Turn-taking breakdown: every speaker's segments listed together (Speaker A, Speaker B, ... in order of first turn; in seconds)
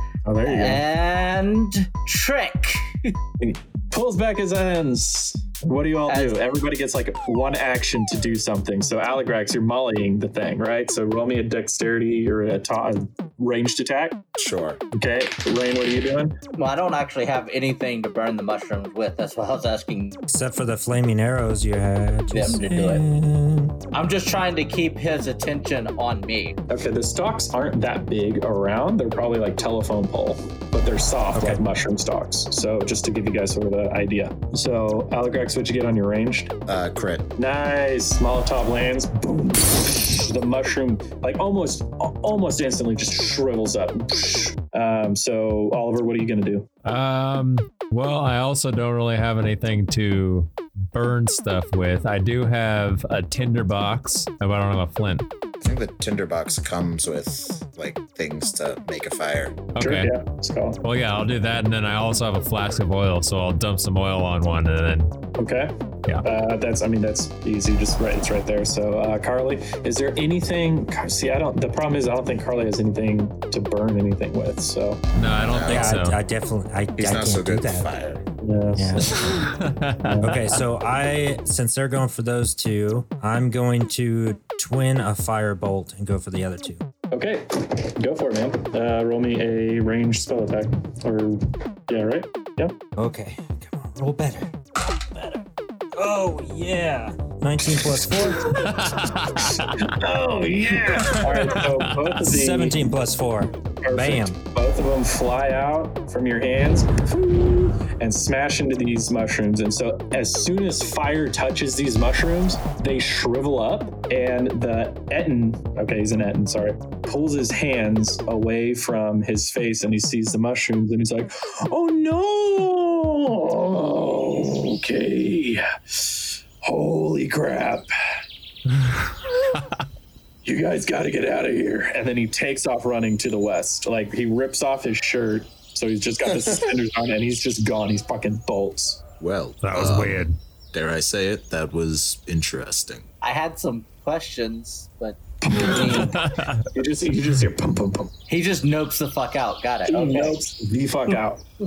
Speaker A: 0.2-0.8, 3.4-14.2, 14.9-16.4, 26.7-36.5, 37.4-46.7, 59.8-60.8, 65.4-75.0, 78.4-79.5, 80.0-80.6, 87.1-92.8, 99.4-102.9, 103.8-127.9, 130.4-139.0, 145.4-148.1, 149.9-151.4
Speaker B: 0.4-3.1, 6.1-6.4, 16.6-20.2, 22.3-23.1, 23.9-26.6, 143.2-146.3, 148.3-150.4
Speaker C: 14.4-14.8, 36.7-37.3, 55.6-59.7, 75.5-76.0, 77.0-78.2, 139.2-143.1
Speaker D: 20.3-23.8, 31.3-31.6, 75.7-77.9, 78.8-79.3, 80.2-86.8, 93.0-95.4, 96.0-99.0, 102.2-104.4
Speaker E: 46.9-55.3, 59.8-60.1, 60.8-65.1, 75.1-76.2, 79.2-80.2, 98.5-99.9, 101.0-101.9, 128.8-129.7, 139.6-140.4, 146.2-146.6